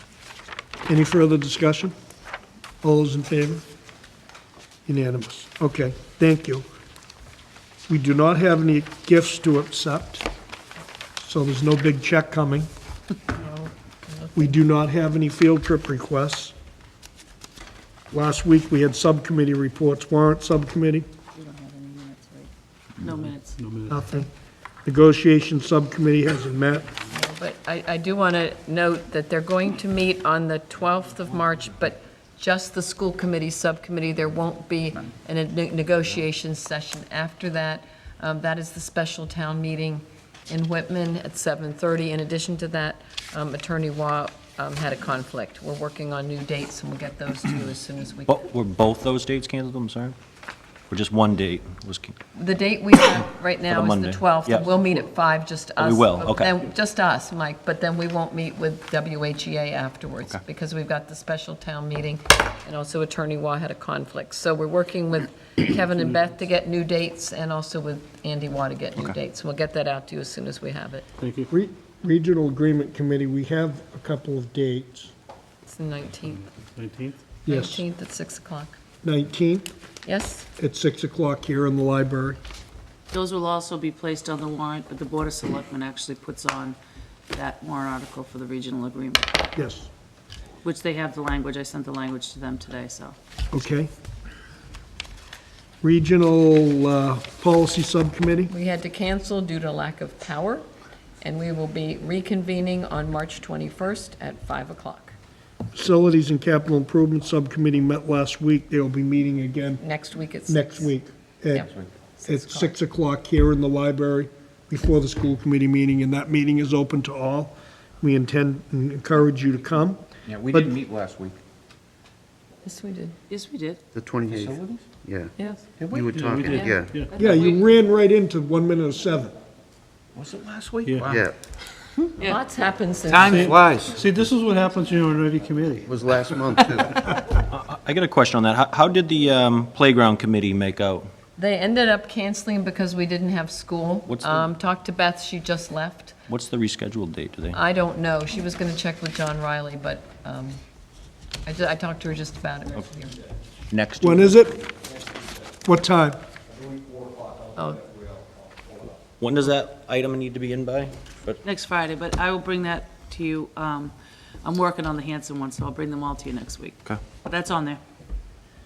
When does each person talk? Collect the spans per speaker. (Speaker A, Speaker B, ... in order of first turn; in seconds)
Speaker A: 0.8-1.9, 2.8-3.6, 4.9-6.7, 7.9-10.3, 11.2-12.7, 14.3-16.5, 18.1-21.1, 23.9-24.3, 24.8-27.0, 71.5-75.1, 77.4-77.8, 79.0-79.7, 80.6-82.4, 89.5-89.9, 93.5-93.9, 95.8-98.5, 105.7-109.8, 110.5-111.7, 112.2-120.7, 127.1-129.3, 154.0-154.6, 155.6-156.2
Speaker B: 13.3-14.5, 27.1-48.4, 52.3-71.0, 75.6-76.5, 77.5-78.8, 80.0-80.5, 98.5-100.7, 101.2-105.2, 109.8-110.9, 111.5-112.7, 122.6-123.2, 125.4-125.7, 126.5-126.8, 132.2-133.6, 141.4-146.3, 147.5-150.6, 151.4-153.2, 157.5-157.9
Speaker C: 21.3-23.6, 83.1-86.8, 87.3-89.3, 90.6-93.2, 123.3-123.8, 127.2-127.5, 161.4-167.8
Speaker D: 23.1-24.0, 71.2-71.5, 76.7-77.2, 126.0-127.1, 130.8-131.2, 133.2-135.9
Speaker E: 48.3-50.1, 50.9-52.2, 53.7-54.8, 55.8-56.5, 137.3-141.1, 144.1-144.5, 146.3-147.6, 153.7-154.3, 159.2-161.4
Speaker F: 120.3-121.4, 124.3-124.8, 130.1-131.2, 133.1-133.9
Speaker G: 123.9-127.0, 131.1-131.3, 133.5-134.0, 135.8-137.2